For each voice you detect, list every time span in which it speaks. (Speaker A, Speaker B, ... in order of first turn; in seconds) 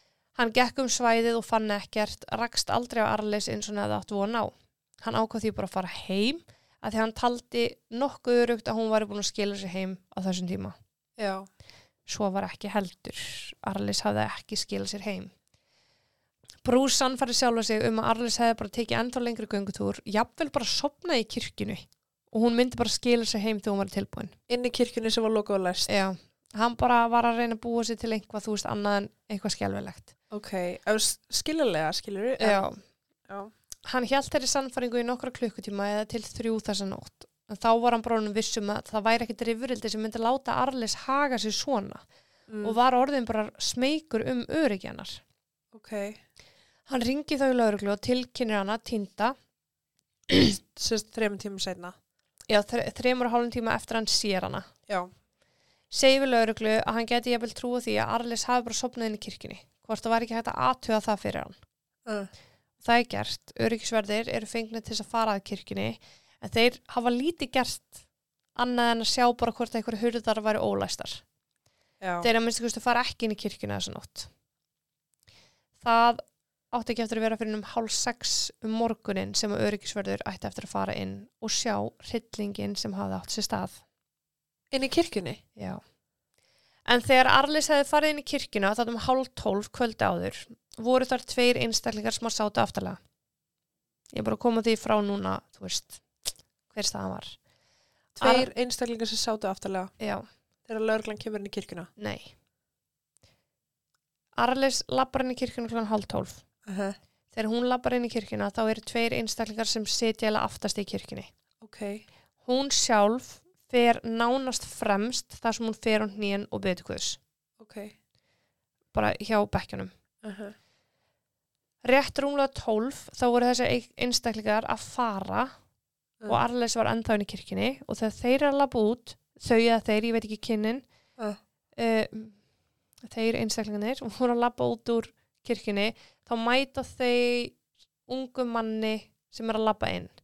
Speaker A: 0.3-10.7, 12.1-15.3, 16.6-24.3, 25.9-30.1, 32.4-32.8, 33.9-42.0, 42.6-45.2, 46.9-49.4, 52.5-54.7, 55.9-61.6, 62.8-68.0, 68.5-71.2, 72.2-74.3, 75.8-83.8, 85.5-85.8, 86.8-93.0, 94.1-96.0, 96.7-97.3, 98.2-98.5, 100.0-100.2, 102.0-102.3, 104.3-106.4, 107.3-111.3, 112.4-117.2, 118.9-119.9, 121.8-125.5, 126.3-130.8, 131.8-132.3, 133.0-140.1
Speaker B: 11.2-11.5, 24.5-25.9, 30.3-32.6, 42.5-42.8, 45.7-46.2, 50.6-51.9, 62.0-62.3, 72.0-72.3, 84.7-85.4, 98.2-99.9, 100.7-101.9, 106.7-107.0, 111.6-112.0, 117.6-117.9, 120.2-120.5